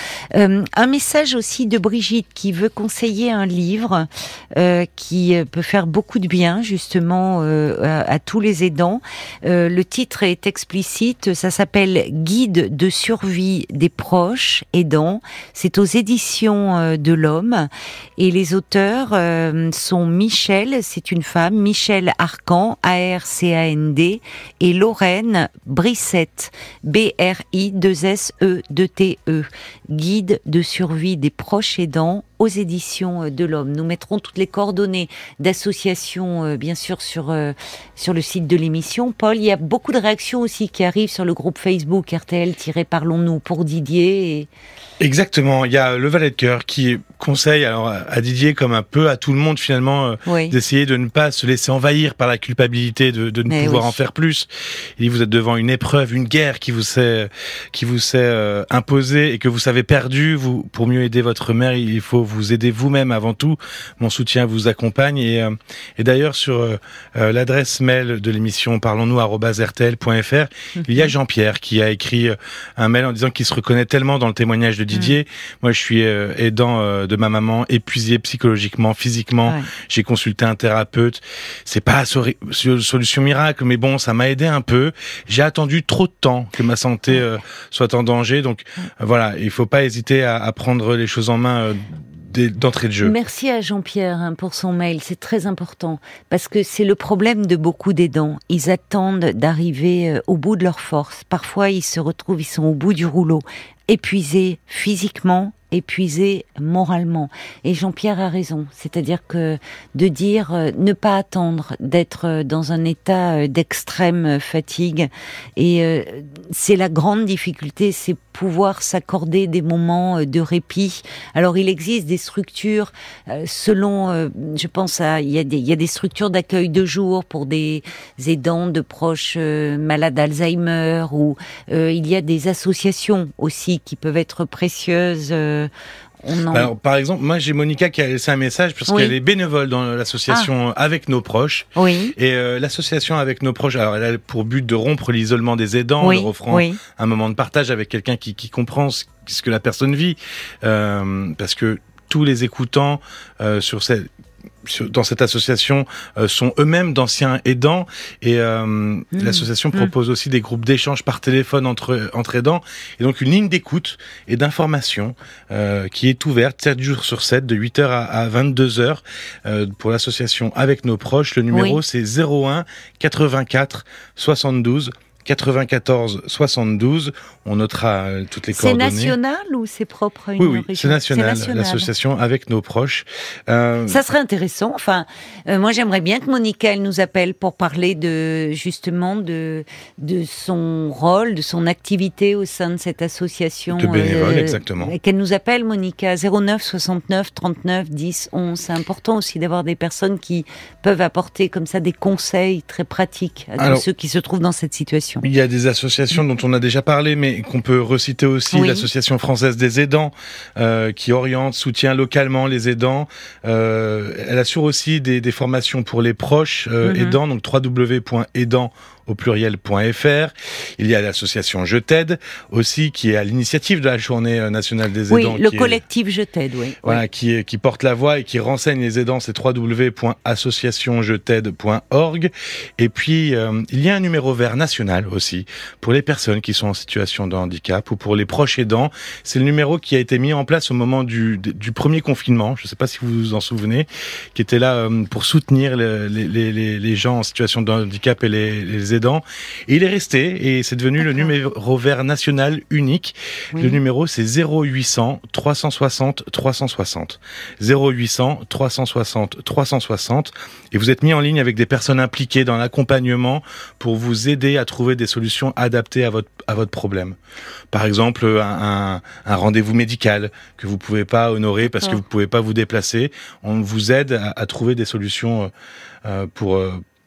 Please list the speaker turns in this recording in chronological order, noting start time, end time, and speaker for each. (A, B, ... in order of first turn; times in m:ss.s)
0:00.3-0:44.5 A
0:45.0-1:33.2 B
0:50.3-0:50.6 A
0:53.5-0:54.0 A
1:10.8-1:11.1 A
1:33.0-2:15.7 A
2:16.2-2:16.7 A
2:16.5-2:34.1 B
2:18.9-2:19.2 A
2:21.8-2:22.2 A
2:26.0-2:26.8 A
2:34.6-2:59.2 B
2:39.1-2:39.9 A
2:51.5-2:51.8 A
2:58.5-3:01.9 A
3:00.4-3:04.0 B
3:03.9-3:25.2 A
3:13.7-3:14.9 B
3:23.6-3:23.8 B
3:25.2-3:45.8 B
3:28.5-3:28.9 A
3:36.8-3:37.2 A
3:45.1-3:47.0 A
3:46.8-4:27.2 B
4:11.0-4:11.3 A
4:13.6-4:13.8 A
4:27.7-4:35.5 B
4:31.6-4:32.0 A
4:36.0-4:36.8 B